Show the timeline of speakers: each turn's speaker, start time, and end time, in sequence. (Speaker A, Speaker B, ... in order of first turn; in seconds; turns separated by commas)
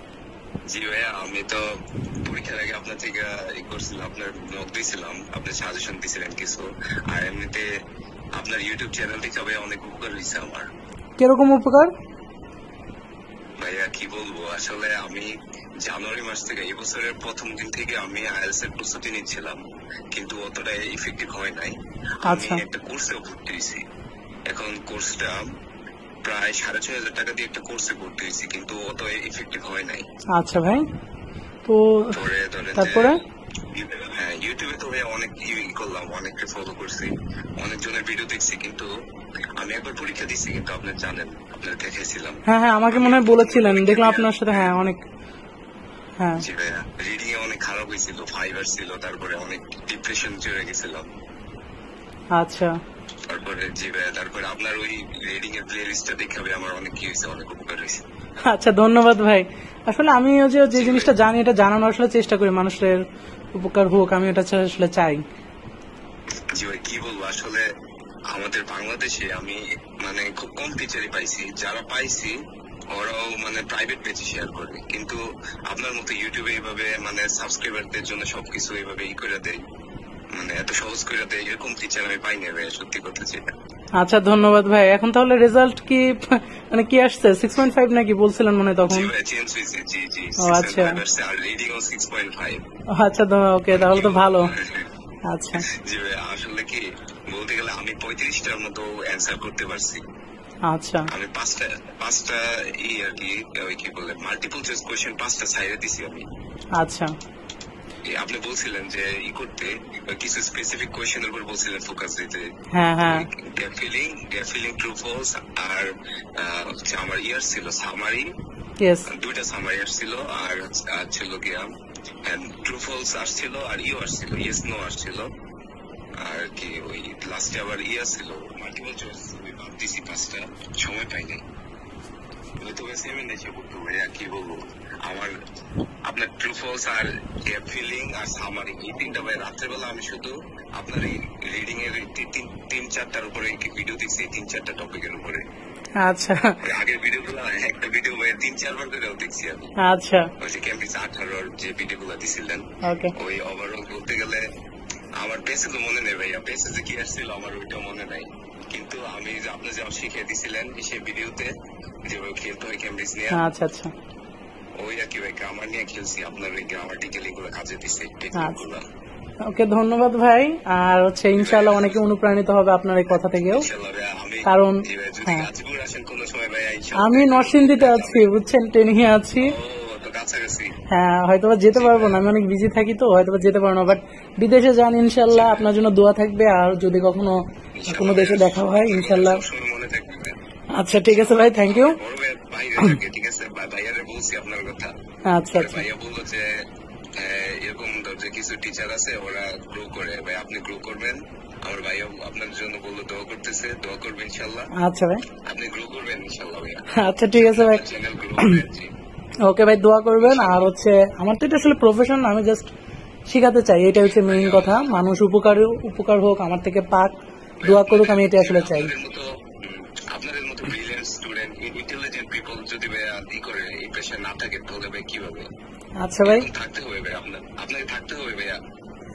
Speaker A: 0.7-1.6, Speaker A: 2.2-7.7, Speaker A: 8.4-10.7, Speaker B: 11.2-11.9, Speaker A: 13.6-15.3, Speaker A: 15.8-19.6, Speaker A: 20.1-21.7, Speaker B: 22.3-22.6, Speaker A: 22.3-23.8, Speaker A: 24.5-25.4, Speaker A: 26.2-30.0, Speaker B: 30.4-30.8, Speaker B: 31.6-32.1, Speaker A: 32.1-33.1, Speaker B: 32.8-33.1, Speaker A: 33.8-38.9, Speaker A: 39.6-42.4, Speaker B: 42.5-45.0, Speaker A: 42.9-44.7, Speaker B: 46.2-46.4, Speaker A: 46.4-51.0, Speaker B: 52.4-52.7, Speaker A: 53.3-58.0, Speaker B: 58.5-63.0, Speaker A: 60.8-61.1, Speaker B: 63.6-65.2, Speaker A: 66.6-67.6, Speaker A: 68.3-72.3, Speaker A: 72.9-75.2, Speaker A: 75.7-79.6, Speaker A: 80.4-83.5, Speaker B: 84.0-89.1, Speaker A: 88.8-92.6, Speaker B: 90.4-91.0, Speaker B: 93.0-94.5, Speaker A: 93.7-94.8, Speaker B: 95.3-95.6, Speaker A: 95.8-100.0, Speaker B: 100.7-101.0, Speaker A: 101.1-106.2, Speaker B: 106.8-107.1, Speaker A: 108.1-112.4, Speaker B: 112.7-113.2, Speaker A: 113.0-118.3, Speaker B: 118.8-119.1, Speaker A: 119.1-121.7, Speaker A: 122.2-125.3, Speaker A: 126.2-131.4, Speaker A: 132.6-135.3, Speaker A: 136.1-145.4, Speaker B: 146.0-146.5, Speaker A: 146.6-149.7, Speaker B: 149.8-150.2, Speaker A: 150.4-152.6, Speaker B: 152.8-153.1, Speaker A: 153.1-154.4, Speaker A: 155.2-161.5, Speaker A: 162.1-163.4, Speaker B: 163.3-163.9, Speaker A: 164.8-168.8, Speaker B: 169.5-173.6, Speaker A: 171.3-172.1, Speaker A: 173.5-178.3, Speaker B: 174.5-175.5, Speaker B: 177.0-179.5, Speaker A: 179.4-180.7, Speaker B: 180.9-187.3, Speaker A: 181.7-182.2, Speaker A: 185.3-185.7, Speaker A: 187.8-190.3, Speaker B: 187.9-189.4, Speaker B: 190.8-192.0, Speaker A: 191.0-194.9, Speaker B: 195.3-195.8, Speaker A: 195.5-196.5, Speaker A: 197.2-204.7, Speaker B: 204.8-205.2, Speaker A: 205.5-208.9, Speaker B: 207.0-207.8, Speaker B: 209.5-212.7, Speaker A: 210.2-210.6, Speaker B: 213.3-218.9, Speaker A: 214.0-214.9, Speaker A: 217.6-225.4, Speaker B: 226.0-226.4, Speaker A: 226.2-228.6